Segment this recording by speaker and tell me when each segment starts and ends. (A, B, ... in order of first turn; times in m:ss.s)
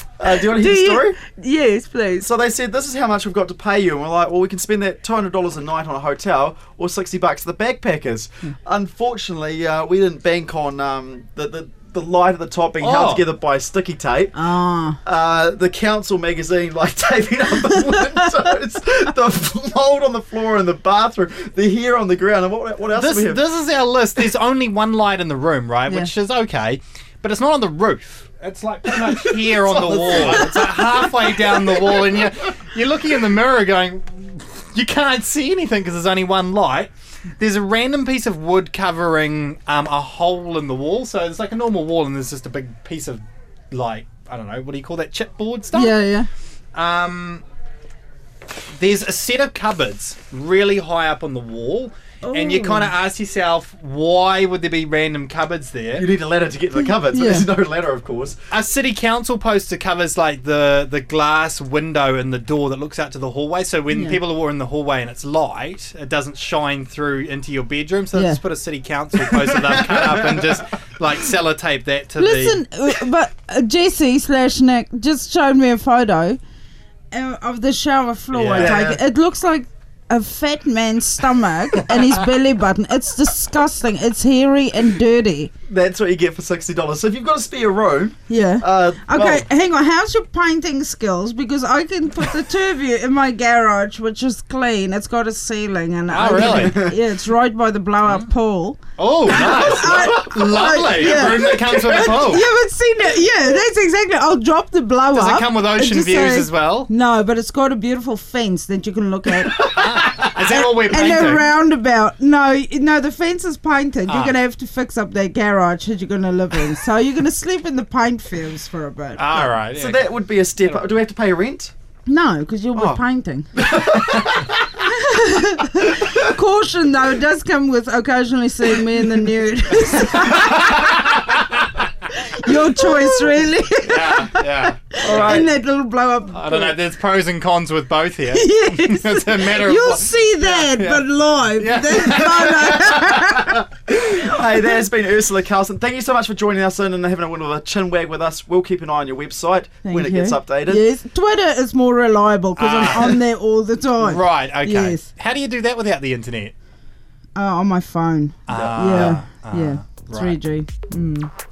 0:00.2-0:01.2 A
0:00.4-0:02.3 B
0:02.2-0:14.4 A
0:12.8-0:13.2 C
0:14.4-0:15.0 B
0:15.0-0:23.4 A
0:17.6-0:18.3 B
0:23.0-0:45.9 C
0:29.0-0:32.3 A
0:45.7-0:46.3 B
0:46.8-0:47.4 C
0:48.7-0:56.1 C
0:52.2-0:52.9 B
0:56.0-0:58.4 A
0:57.1-0:57.5 B
0:58.5-1:12.6 C
1:03.9-1:04.2 B
1:08.1-1:08.4 B
1:09.3-1:10.6 A
1:12.2-1:16.4 B
1:17.1-1:25.5 B
1:18.3-1:18.8 C
1:18.6-1:19.0 A
1:25.7-1:29.4 A
1:28.3-1:49.6 B
1:36.1-1:36.8 C
1:36.2-1:37.0 A
1:39.0-1:42.5 C
1:39.3-1:42.2 A
1:45.1-1:46.9 C
1:49.7-1:51.5 C
1:49.7-1:50.6 A
1:50.5-1:59.5 B
1:54.1-1:54.4 C
1:59.2-2:00.9 C
1:59.7-2:01.7 A
2:02.1-2:03.5 B
2:02.7-2:03.0 A
2:03.6-2:04.6 A
2:04.8-2:11.1 B
2:10.0-2:11.7 C
2:12.1-2:16.8 B
2:12.9-2:15.5 C
2:15.0-2:15.5 A
2:16.3-2:23.6 C
2:18.3-2:24.8 B
2:23.9-2:30.8 A
2:29.8-2:35.1 B
2:32.6-2:33.2 C
2:34.0-2:36.5 C
2:37.4-2:41.3 B
2:38.5-2:40.4 C
2:38.5-2:39.2 A